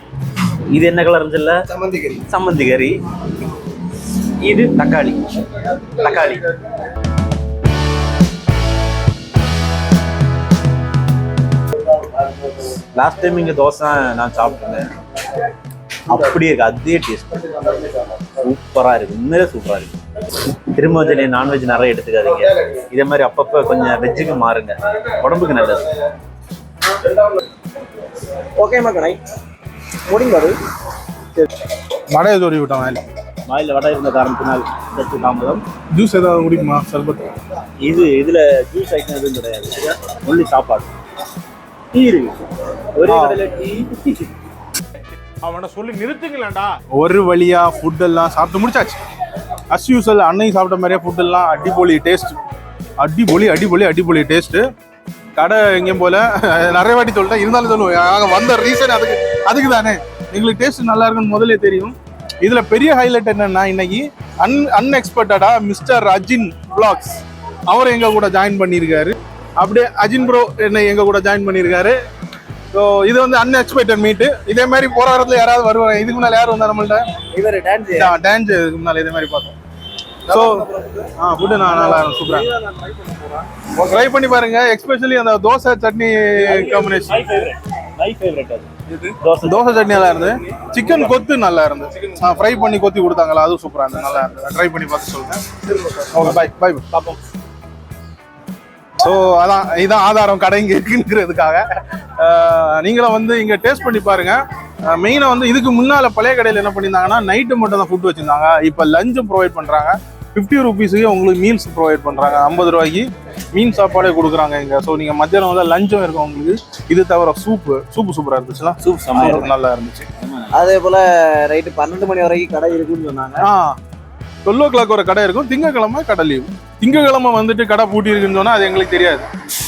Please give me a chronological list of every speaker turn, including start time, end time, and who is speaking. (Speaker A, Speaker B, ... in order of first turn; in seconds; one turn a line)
Speaker A: 0.7-3.0
Speaker A: 4.4-5.3
Speaker A: 5.9-6.5
Speaker A: 12.9-14.9
Speaker A: 16.1-19.9
Speaker A: 20.6-25.9
Speaker B: 28.6-29.2
Speaker B: 30.1-30.6
Speaker C: 32.1-33.0
Speaker A: 33.5-35.6
Speaker C: 35.9-37.4
Speaker A: 37.8-40.9
Speaker A: 41.9-44.3
Speaker C: 43.1-43.4
Speaker C: 45.4-49.0
Speaker C: 49.7-52.4
Speaker C: 53.0-54.6
Speaker C: 55.3-72.0
Speaker C: 72.7-77.0
Speaker A: 77.3-78.1
Speaker C: 78.0-79.5
Speaker C: 80.3-82.5
Speaker A: 82.1-83.3
Speaker C: 83.8-87.2
Speaker A: 86.4-88.7
Speaker C: 88.9-95.4
Speaker A: 89.2-91.2
Speaker C: 96.1-96.8
Speaker A: 96.9-97.2
Speaker C: 99.0-120.1
Speaker A: 118.8-119.5
Speaker A: 120.2-120.8
Speaker B: 120.5-123.5
Speaker C: 123.4-123.8
Speaker C: 124.4-129.2